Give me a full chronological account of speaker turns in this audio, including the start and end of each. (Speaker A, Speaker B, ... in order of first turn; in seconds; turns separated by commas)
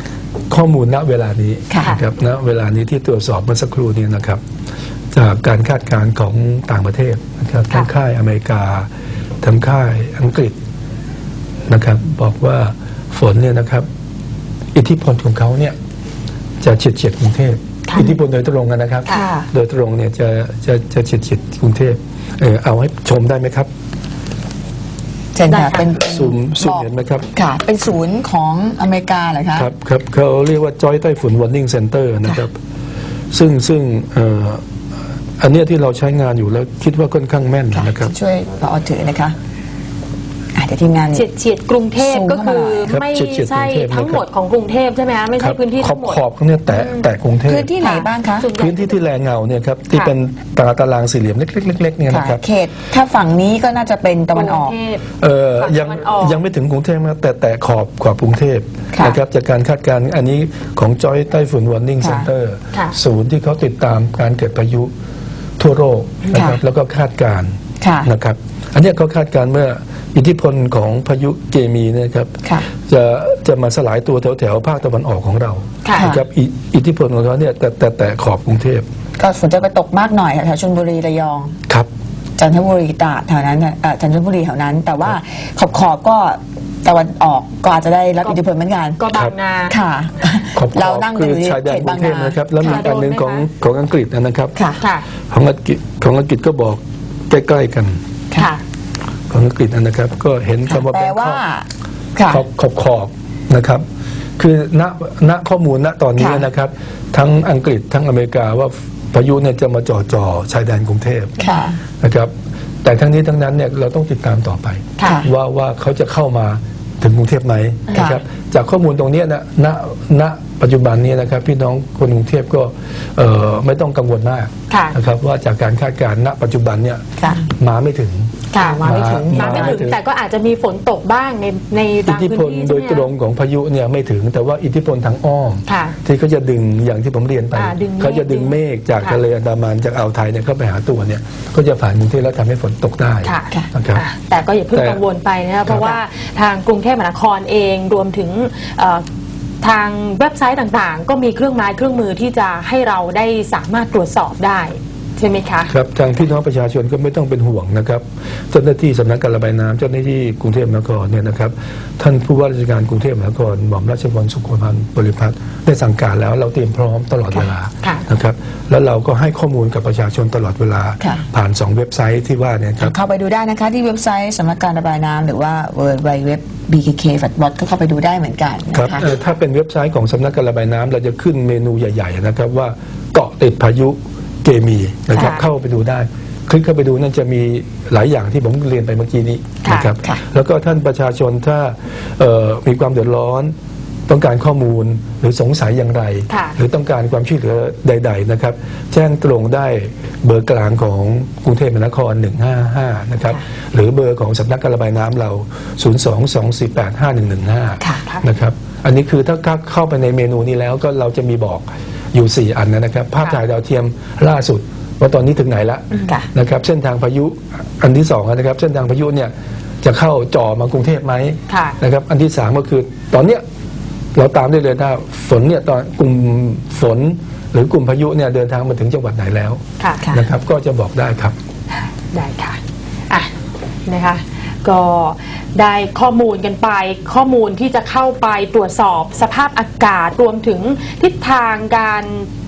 Speaker A: 0.5-4.4, Speaker B: 1.7-2.0, Speaker A: 5.1-8.9, Speaker A: 9.4-10.6, Speaker A: 11.7-13.9, Speaker A: 14.8-15.8, Speaker A: 16.6-23.7, Speaker B: 18.0-18.2, Speaker B: 19.1-19.5, Speaker B: 25.3-29.7, Speaker C: 25.5-25.9, Speaker A: 25.9-27.3, Speaker A: 29.6-32.6, Speaker A: 33.3-34.6, Speaker A: 35.4-38.1, Speaker B: 37.7-39.4, Speaker B: 40.5-41.2, Speaker C: 41.1-47.1, Speaker B: 42.0-42.9, Speaker A: 42.9-44.2, Speaker A: 45.4-47.7, Speaker B: 47.5-48.5, Speaker C: 47.8-49.0, Speaker A: 48.6-52.4, Speaker B: 52.1-54.8, Speaker C: 54.3-55.0, Speaker A: 55.2-64.9, Speaker C: 55.6-56.4, Speaker B: 62.0-62.3, Speaker A: 65.6-78.9, Speaker B: 66.3-66.6, Speaker B: 67.8-68.1, Speaker C: 75.8-76.2, Speaker B: 75.9-76.2, Speaker B: 79.2-81.5, Speaker B: 82.4-89.0, Speaker C: 89.0-89.8, Speaker B: 89.7-92.8, Speaker A: 90.5-94.6, Speaker C: 92.6-93.5, Speaker A: 95.3-98.0, Speaker C: 98.3-98.6, Speaker A: 99.3-101.4, Speaker B: 100.7-102.4, Speaker A: 102.3-103.8, Speaker A: 104.4-111.4, Speaker B: 106.2-106.5, Speaker B: 111.4-111.8, Speaker A: 112.0-112.3, Speaker A: 112.8-130.0, Speaker C: 115.0-115.3, Speaker B: 115.0-115.3, Speaker B: 117.9-118.2, Speaker C: 124.7-125.0, Speaker B: 127.2-127.4, Speaker C: 128.5-133.1, Speaker B: 128.5-129.8, Speaker A: 132.1-144.1, Speaker C: 135.7-136.0, Speaker C: 137.5-139.2, Speaker C: 143.2-149.0, Speaker A: 144.7-145.0, Speaker A: 145.7-145.9, Speaker C: 149.6-155.7, Speaker A: 155.7-172.9, Speaker B: 172.8-179.2, Speaker A: 178.7-193.5, Speaker C: 185.2-185.4, Speaker C: 189.6-189.9, Speaker A: 194.1-223.4, Speaker C: 196.3-196.6, Speaker C: 221.5-221.8, Speaker A: 224.2-231.4, Speaker C: 229.8-230.1, Speaker C: 232.1-232.6, Speaker C: 233.9-242.3